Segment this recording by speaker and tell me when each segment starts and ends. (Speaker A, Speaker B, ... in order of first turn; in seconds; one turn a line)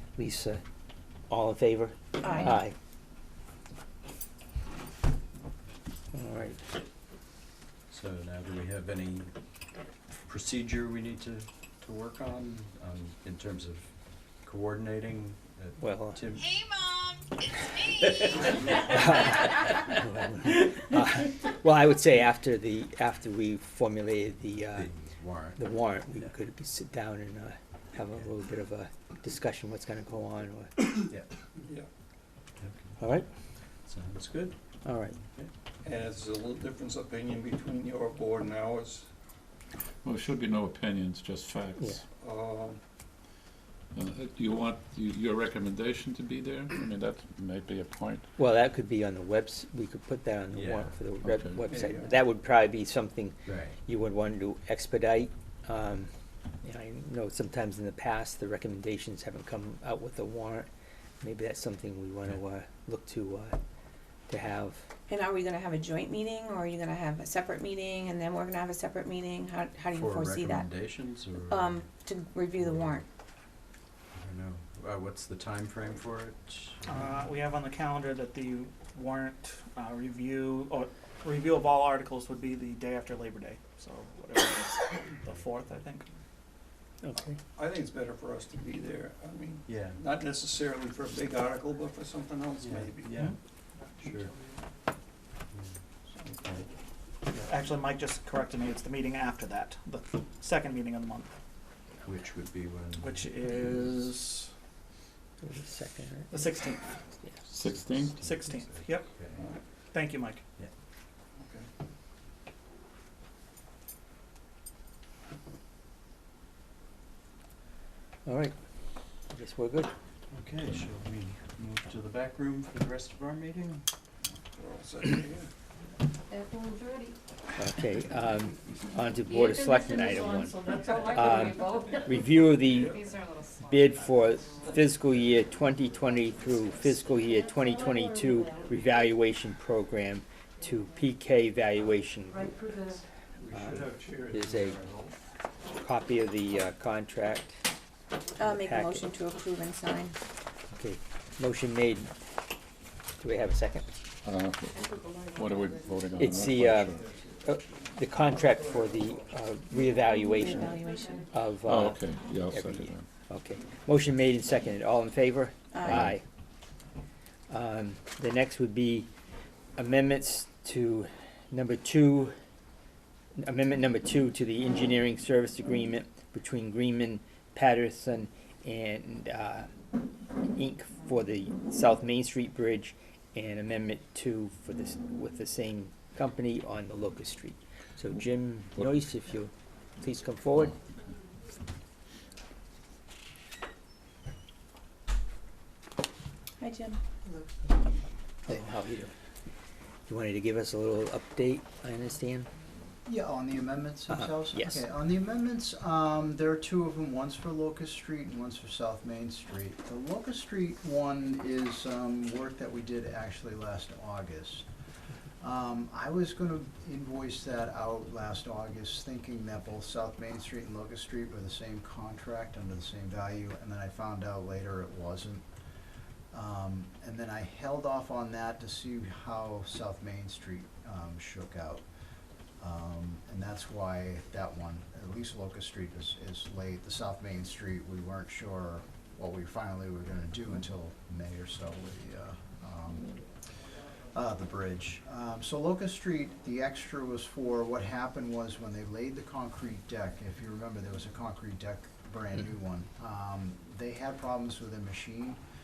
Speaker A: 0.2-0.6
Speaker A: 1.3-2.7
Speaker B: 2.2-2.5
Speaker A: 6.1-6.6
Speaker C: 7.9-9.3
Speaker C: 10.1-16.7
Speaker A: 15.8-16.2
Speaker A: 18.7-24.9
Speaker C: 24.7-25.6
Speaker A: 25.6-30.9
Speaker C: 32.6-33.0
Speaker A: 33.0-33.3
Speaker C: 33.8-35.5
Speaker A: 34.8-35.2
Speaker D: 35.8-39.1
Speaker E: 40.0-42.0
Speaker D: 42.2-42.8
Speaker E: 43.9-48.3
Speaker A: 48.4-56.1
Speaker C: 50.5-51.0
Speaker E: 51.2-51.6
Speaker D: 51.7-52.2
Speaker C: 53.5-53.8
Speaker A: 56.6-60.7
Speaker A: 61.2-63.6
Speaker A: 64.3-64.8
Speaker B: 65.1-70.7
Speaker C: 69.9-71.8
Speaker B: 71.5-73.0
Speaker C: 72.6-73.0
Speaker C: 74.2-77.2
Speaker F: 76.9-86.1
Speaker A: 87.0-87.4
Speaker D: 87.5-93.2
Speaker C: 89.7-90.0
Speaker C: 92.6-93.3
Speaker C: 94.0-94.3
Speaker C: 96.3-96.7
Speaker F: 97.5-101.3
Speaker C: 102.0-103.9
Speaker F: 103.0-104.5
Speaker A: 105.4-106.5
Speaker F: 106.3-106.9
Speaker E: 107.5-108.2
Speaker C: 107.7-109.5
Speaker F: 108.0-109.1
Speaker F: 109.9-110.4
Speaker D: 111.4-111.7
Speaker A: 118.3-118.5
Speaker A: 119.3-119.9
Speaker C: 120.3-123.9
Speaker D: 124.3-125.5
Speaker G: 126.3-127.1
Speaker A: 127.6-133.0
Speaker G: 129.3-134.8
Speaker D: 132.7-133.2
Speaker A: 133.6-142.6
Speaker D: 134.7-135.4
Speaker G: 136.2-138.8
Speaker G: 140.6-141.1
Speaker G: 142.3-142.9
Speaker A: 143.5-144.8
Speaker E: 143.5-143.9
Speaker A: 145.8-147.6
Speaker A: 148.4-149.1
Speaker B: 148.4-150.2
Speaker A: 150.8-152.1
Speaker A: 153.2-153.9
Speaker E: 154.2-157.1
Speaker G: 154.7-156.0
Speaker A: 156.1-166.2
Speaker D: 158.7-159.2
Speaker B: 159.9-161.3
Speaker G: 160.8-161.2
Speaker E: 161.6-163.1
Speaker B: 165.7-166.1
Speaker E: 165.9-166.2
Speaker A: 167.5-169.1
Speaker A: 169.8-172.3
Speaker A: 173.4-179.7
Speaker A: 180.5-190.8
Speaker B: 196.6-197.0
Speaker A: 198.5-199.1
Speaker A: 200.1-202.5
Speaker H: 203.1-214.7
Speaker A: 204.1-204.8
Speaker H: 215.4-225.5
Speaker H: 226.3-231.8
Speaker H: 232.6-255.4